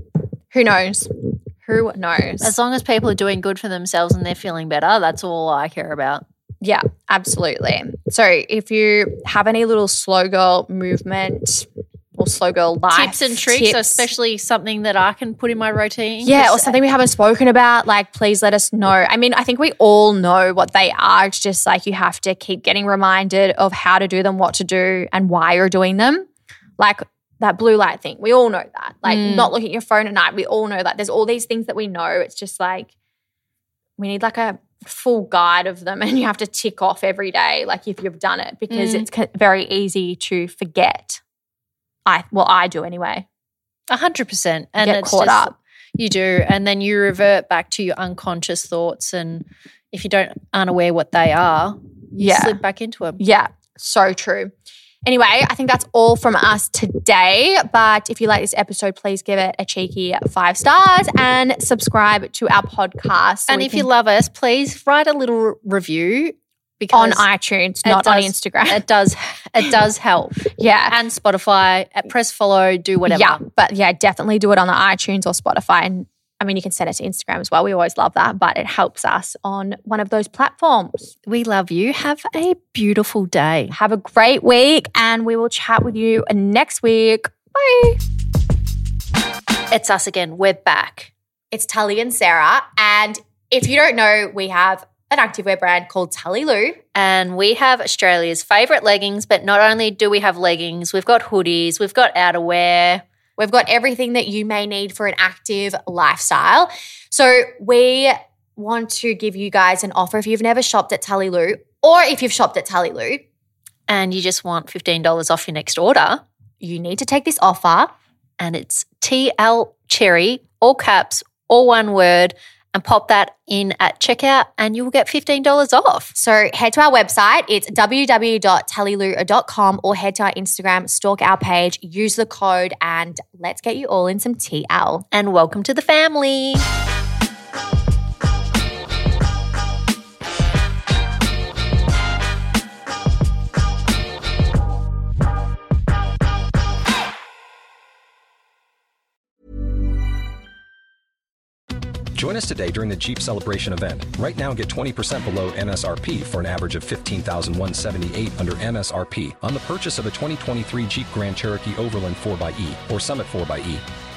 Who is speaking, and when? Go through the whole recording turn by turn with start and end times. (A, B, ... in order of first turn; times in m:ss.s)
0:00.5-0:02.5 A
0:02.4-0:06.2 B
0:06.6-0:14.1 A
0:12.9-0:16.8 B
0:16.2-0:26.3 A
0:26.8-0:32.9 A
0:29.0-0:29.5 B
0:34.0-0:41.2 A
0:38.7-0:39.0 B
0:42.0-0:43.3 A
0:43.9-0:53.2 B
0:44.8-0:45.5 A
0:52.2-0:52.6 A
0:53.2-0:54.5 A
0:55.0-1:03.9 A
1:03.5-1:07.2 B
1:06.9-1:08.8 A
1:07.8-1:13.4 B
1:10.6-1:11.0 A
1:13.1-1:21.1 A
1:21.3-1:23.7 B
1:23.7-1:28.0 A
1:29.7-1:31.1 B
1:31.5-1:36.8 A
1:36.9-1:43.0 B
1:43.4-1:53.2 A
1:53.9-1:56.2 B
1:56.6-1:57.9 A
1:58.4-2:06.1 B
2:06.1-2:15.0 A
2:15.1-2:16.6 B
2:32.1-2:43.8 C